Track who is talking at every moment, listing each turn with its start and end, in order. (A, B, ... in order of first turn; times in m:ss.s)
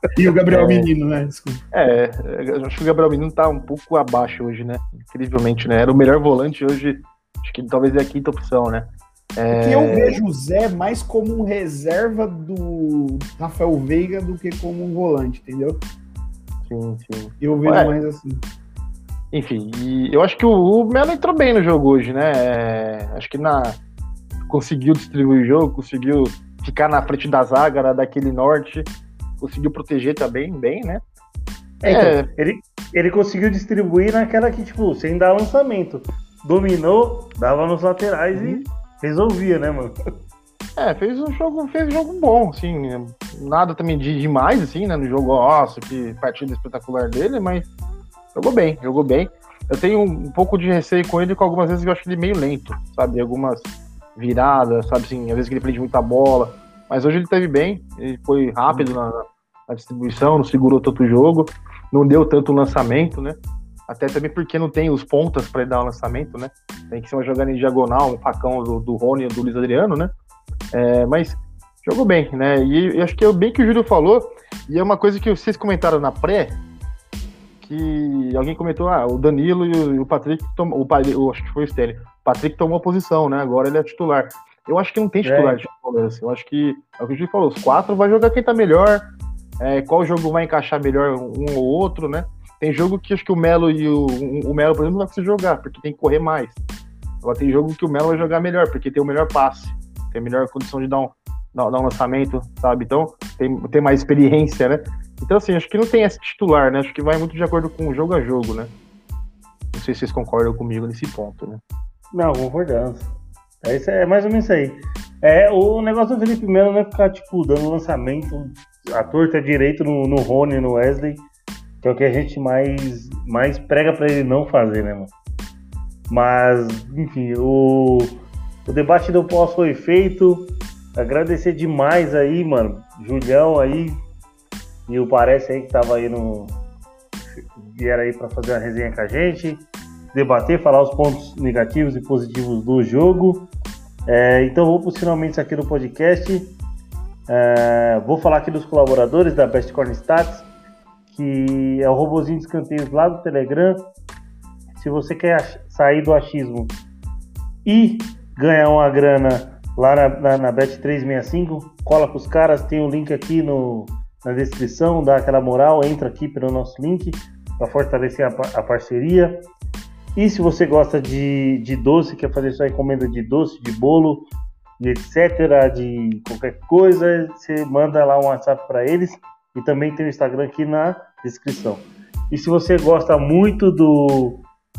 0:00.1-0:01.6 A
0:00.5-0:00.9 B
0:01.7-0:10.2 B
0:09.5-0:15.8 A
0:16.6-0:18.0 B
0:17.4-0:18.4 A
0:19.3-0:23.8 B
0:24.5-0:31.0 B
0:31.8-0:39.9 C
0:31.8-0:32.3 B
0:38.3-0:38.6 B
0:40.8-0:47.7 B
0:48.3-1:03.4 B
1:03.9-1:10.1 B
1:10.7-1:16.6 B
1:17.6-1:29.1 B
1:25.2-1:25.6 C
1:29.6-1:36.6 B
1:37.2-1:48.7 B
1:49.7-1:51.6 B
1:52.1-2:01.2 C
2:01.8-2:05.1 C
2:06.1-2:13.9 C
2:14.9-2:16.6 C
2:17.2-2:23.5 C
2:24.1-2:26.6 C
2:27.3-2:30.4 C
2:31.1-2:33.8 C
2:34.8-2:36.8 C
2:37.6-2:49.4 C
2:50.2-2:54.2 C
2:54.8-3:04.4 C